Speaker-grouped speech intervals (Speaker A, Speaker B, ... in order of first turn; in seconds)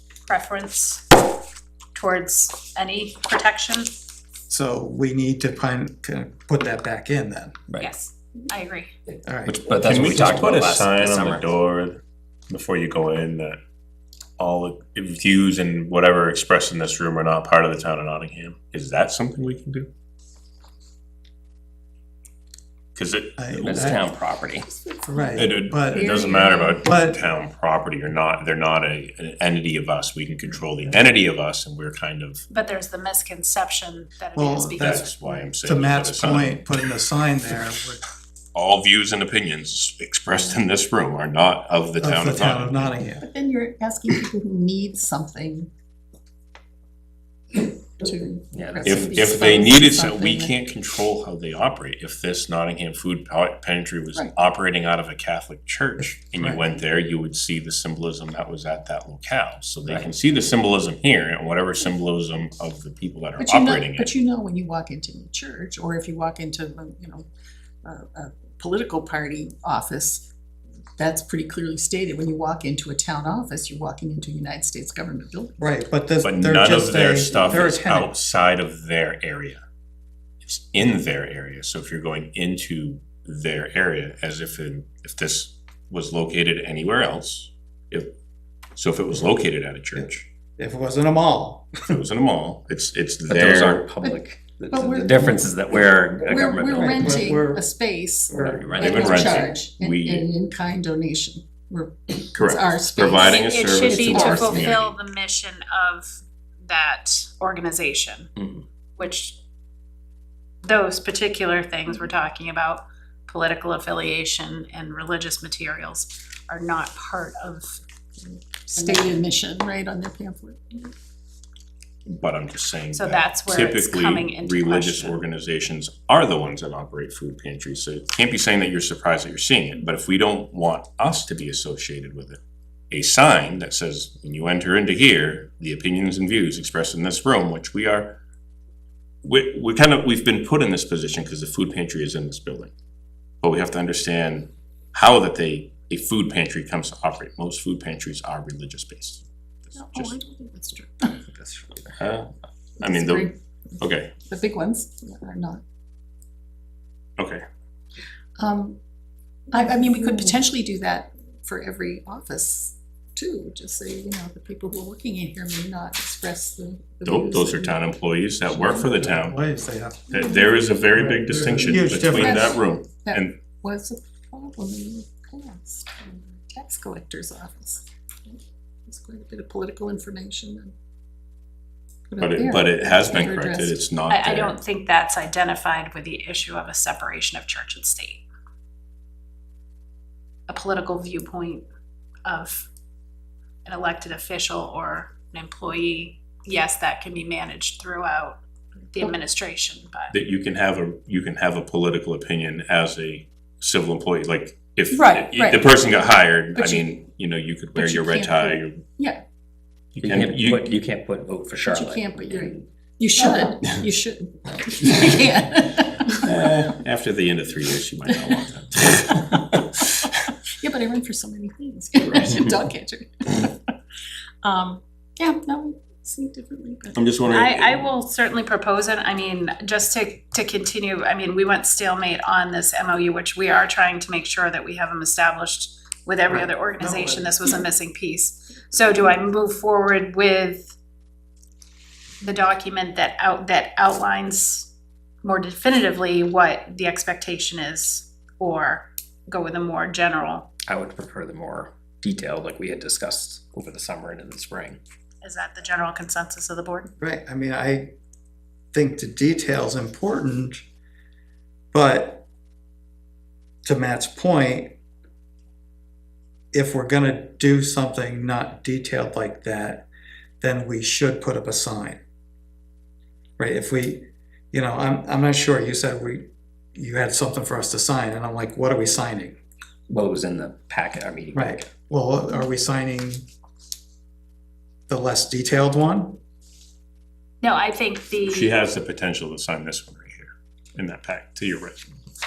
Speaker A: 0.3-1.1, 1.9-3.9, 7.8-8.9, 32.5-35.1, 103.1-108.3, 109.0-109.4, 110.6-117.8, 118.7-119.2, 122.9-125.2, 184.1-188.2, 190.5-191.7, 192.2-192.7, 193.7-200.2, 227.3-240.8, 242.2-244.7, 245.2-250.5, 255.2-256.9, 287.4-288.5
Speaker B: 4.5-7.6, 9.2-9.6, 23.4-24.0, 25.1-26.2, 26.8-27.2, 34.4-38.0, 42.0-43.3, 75.6-78.1, 90.0-92.0, 96.7-97.7, 98.3-98.9, 168.6-172.6, 236.3-237.3, 257.0-257.9, 258.7-260.6, 261.7-262.3, 263.6-264.8, 266.5-269.9, 270.4-272.0, 273.4-279.4, 281.3-283.3, 284.9-286.2
Speaker C: 9.5-11.5, 23.6-24.7, 48.5-49.2, 93.3-97.3, 98.4-99.5, 108.4-108.6, 151.1-152.0, 210.0-212.6, 250.7-254.8, 279.9-281.7
Speaker D: 9.7-13.6, 14.4-19.9, 22.9-24.0, 25.4-32.5, 34.8-36.7, 38.5-43.0, 48.8-64.1, 76.2-79.6, 80.4-88.1, 88.8-90.2, 91.9-93.9, 98.8-100.3, 102.3-104.9, 122.1-132.4, 132.9-138.2, 139.2-142.7, 143.4-150.2, 152.0-154.1, 167.0-169.4, 170.1-173.4, 182.2-184.6, 200.1-208.8, 210.0-210.7, 216.1-220.1, 222.0-222.4, 226.9-227.9, 288.3-291.9
Speaker E: 24.6-26.9, 43.2-45.7, 47.5-50.6, 63.4-67.3, 67.8-70.3, 71.0-75.6, 94.7-95.5, 96.2-104.8, 118.8-120.9, 149.8-151.2, 152.8-153.3, 154.3-155.6, 158.4-158.8, 159.5-167.8, 171.4-180.7, 182.1-183.8, 205.1-205.7, 206.6-206.9, 207.8-209.2, 211.7-216.7, 218.1-218.4, 219.0-219.4, 220.6-223.6, 224.4-227.0